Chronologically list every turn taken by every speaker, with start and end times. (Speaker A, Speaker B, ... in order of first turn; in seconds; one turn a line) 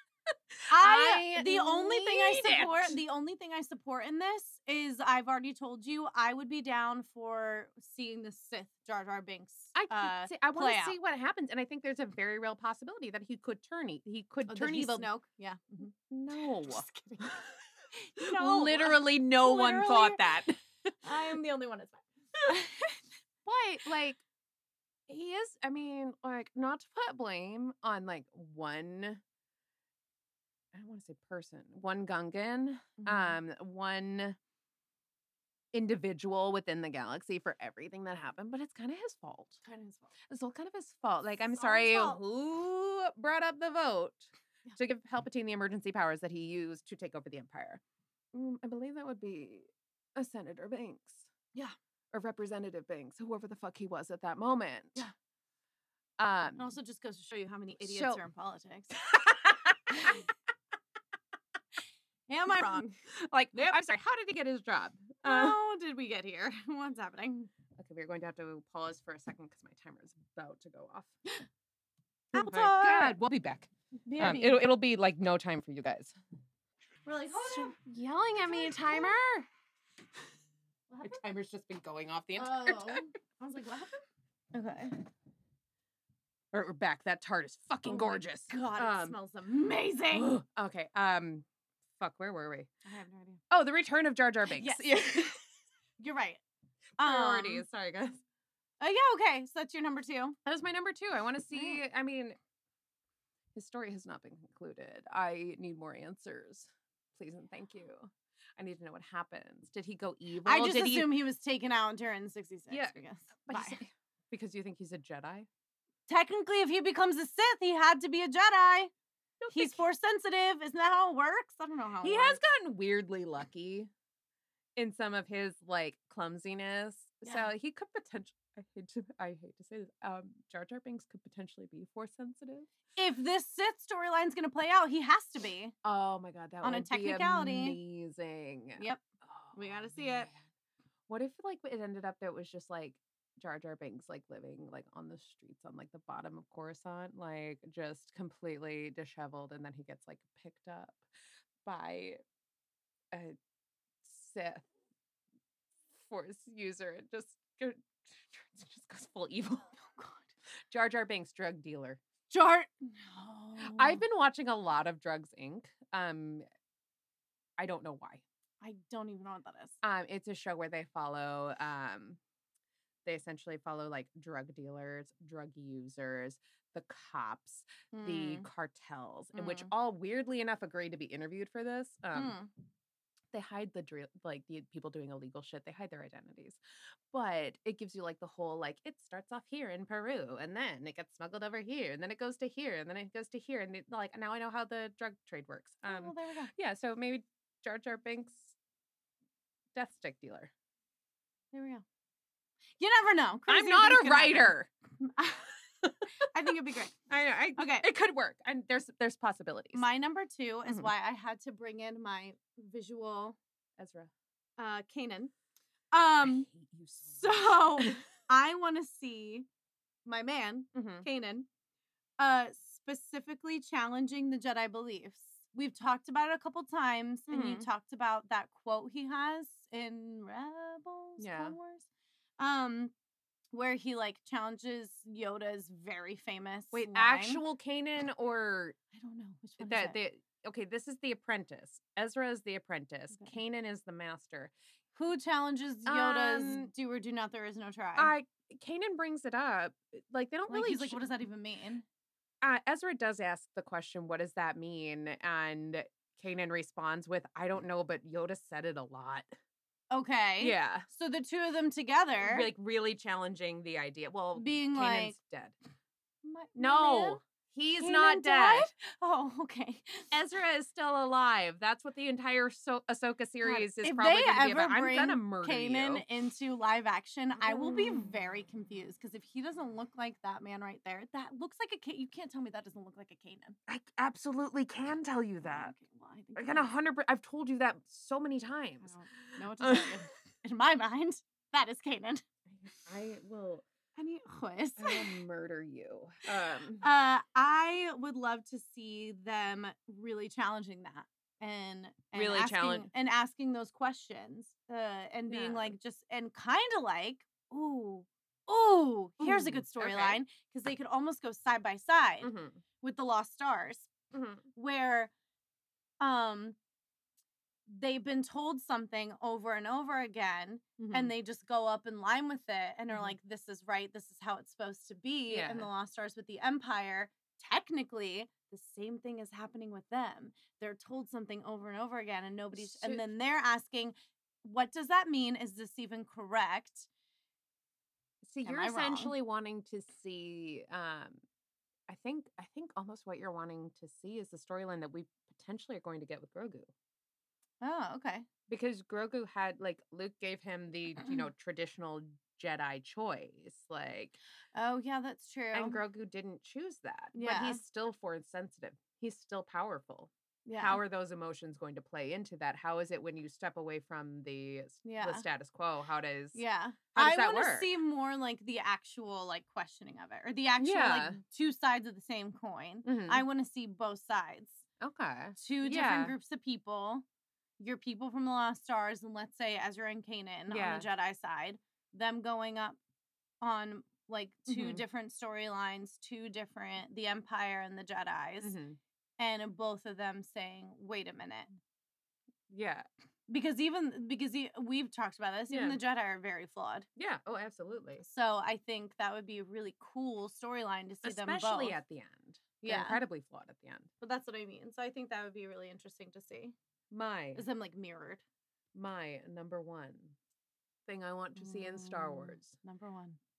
Speaker A: 0.7-11.0
Speaker B: 0.7-3.0
Speaker B: 9.7-15.1
Speaker A: 14.5-15.9
Speaker B: 16.0-17.3
Speaker A: 16.6-17.4
Speaker A: 17.9-20.2
Speaker B: 18.2-20.9
Speaker A: 21.0-23.0
Speaker B: 23.4-24.2
Speaker B: 25.1-29.2
Speaker B: 30.7-34.4
Speaker A: 33.0-33.4
Speaker B: 35.7-39.6
Speaker A: 39.6-40.1
Speaker B: 40.3-47.8
Speaker A: 41.5-42.2
Speaker B: 48.3-51.3
Speaker B: 52.1-55.0
Speaker B: 56.2-56.7
Speaker A: 56.6-59.0
Speaker B: 57.8-58.2
Speaker B: 59.1-60.2
Speaker A: 59.9-60.2
Speaker A: 62.3-62.9
Speaker B: 62.5-65.6
Speaker A: 65.2-67.5
Speaker B: 67.8-71.1
Speaker B: 72.3-76.1
Speaker A: 72.3-73.2
Speaker A: 74.1-74.6
Speaker A: 77.0-77.8
Speaker B: 77.3-79.5
Speaker A: 78.5-79.2
Speaker A: 80.9-81.2
Speaker B: 81.0-83.0
Speaker A: 82.4-84.0
Speaker A: 84.5-85.0
Speaker B: 86.5-89.2
Speaker A: 87.8-90.3
Speaker B: 90.1-91.4
Speaker B: 92.0-92.7
Speaker A: 92.8-93.4
Speaker B: 93.5-95.4
Speaker A: 94.5-95.3
Speaker A: 96.0-96.4
Speaker A: 97.0-97.6
Speaker B: 97.0-98.2
Speaker A: 98.8-100.4
Speaker B: 100.4-102.4
Speaker A: 101.5-101.8
Speaker B: 103.5-111.2
Speaker A: 110.4-113.8
Speaker B: 112.7-115.5
Speaker A: 116.1-118.9
Speaker B: 119.4-119.8
Speaker A: 119.5-122.4
Speaker B: 122.0-123.9
Speaker B: 124.8-132.7
Speaker A: 127.2-127.5
Speaker A: 132.9-135.7
Speaker B: 135.8-140.4
Speaker A: 136.6-137.8
Speaker A: 139.5-140.3
Speaker B: 141.1-151.0
Speaker B: 151.6-152.2
Speaker B: 154.0-154.7
Speaker B: 155.9-159.9
Speaker A: 160.0-160.2
Speaker B: 160.7-162.0
Speaker A: 162.3-164.0
Speaker B: 163.6-166.4
Speaker B: 167.6-168.2
Speaker A: 168.6-169.8
Speaker B: 169.8-172.2
Speaker B: 173.0-182.4
Speaker A: 177.9-178.5
Speaker A: 179.3-179.7
Speaker A: 182.1-182.5
Speaker B: 183.3-186.6
Speaker B: 187.1-198.6
Speaker A: 195.8-196.5
Speaker B: 199.7-200.5
Speaker A: 201.5-201.8
Speaker A: 202.8-205.5
Speaker B: 203.5-204.7
Speaker A: 206.3-207.0
Speaker B: 207.1-209.8
Speaker A: 207.6-207.8
Speaker A: 209.7-213.4
Speaker B: 213.8-214.1
Speaker A: 214.6-215.3
Speaker A: 215.9-216.5
Speaker B: 216.2-218.0
Speaker A: 217.1-219.5
Speaker A: 220.0-221.5
Speaker B: 220.7-221.1
Speaker A: 222.2-231.9
Speaker B: 227.3-227.7
Speaker B: 231.2-231.6
Speaker A: 232.4-232.9
Speaker A: 233.5-237.4
Speaker B: 236.7-238.8
Speaker A: 238.9-240.0
Speaker B: 239.6-244.5
Speaker A: 244.9-248.1
Speaker B: 245.8-246.7
Speaker B: 248.0-251.0
Speaker A: 250.5-251.8
Speaker B: 252.4-259.3
Speaker A: 259.9-262.5
Speaker B: 260.4-260.9
Speaker B: 262.2-265.5
Speaker A: 264.3-265.1
Speaker A: 266.2-267.2
Speaker B: 266.5-268.7
Speaker A: 267.8-270.1
Speaker B: 270.1-276.0
Speaker A: 273.4-283.6
Speaker B: 277.4-278.0
Speaker B: 283.7-285.7
Speaker A: 285.4-286.7
Speaker B: 286.4-289.0
Speaker A: 288.8-292.2
Speaker B: 289.6-290.1
Speaker B: 292.5-293.6
Speaker A: 294.0-295.1
Speaker B: 294.8-296.9
Speaker A: 296.8-313.9
Speaker B: 302.1-302.9
Speaker B: 305.3-305.7
Speaker B: 309.2-310.2
Speaker B: 312.2-312.6
Speaker B: 314.1-314.4
Speaker A: 314.5-315.1
Speaker A: 316.0-316.6
Speaker A: 317.7-336.9
Speaker B: 320.8-321.1
Speaker B: 325.3-325.7
Speaker B: 332.5-333.0
Speaker B: 338.2-341.2
Speaker A: 338.4-339.1
Speaker B: 341.9-346.7
Speaker A: 347.6-348.3
Speaker B: 348.5-354.2
Speaker A: 354.5-355.8
Speaker B: 355.5-366.4
Speaker A: 357.1-357.6
Speaker A: 360.4-360.8
Speaker A: 364.8-365.2
Speaker A: 366.3-374.6
Speaker B: 366.9-367.7
Speaker B: 370.6-371.2
Speaker B: 372.8-373.2
Speaker B: 374.8-376.1
Speaker A: 375.4-377.0
Speaker A: 377.6-382.8
Speaker B: 380.5-380.9
Speaker A: 383.4-388.6
Speaker B: 384.5-384.8
Speaker B: 388.4-388.8
Speaker A: 389.2-391.5
Speaker B: 392.5-392.9
Speaker A: 393.3-396.9
Speaker B: 395.5-395.8
Speaker B: 397.0-398.1
Speaker A: 398.0-401.8
Speaker B: 401.0-403.9
Speaker A: 402.6-403.0
Speaker A: 404.0-406.5
Speaker B: 406.9-407.4
Speaker A: 407.3-408.2
Speaker B: 408.7-410.1
Speaker B: 410.9-412.5
Speaker A: 411.4-413.2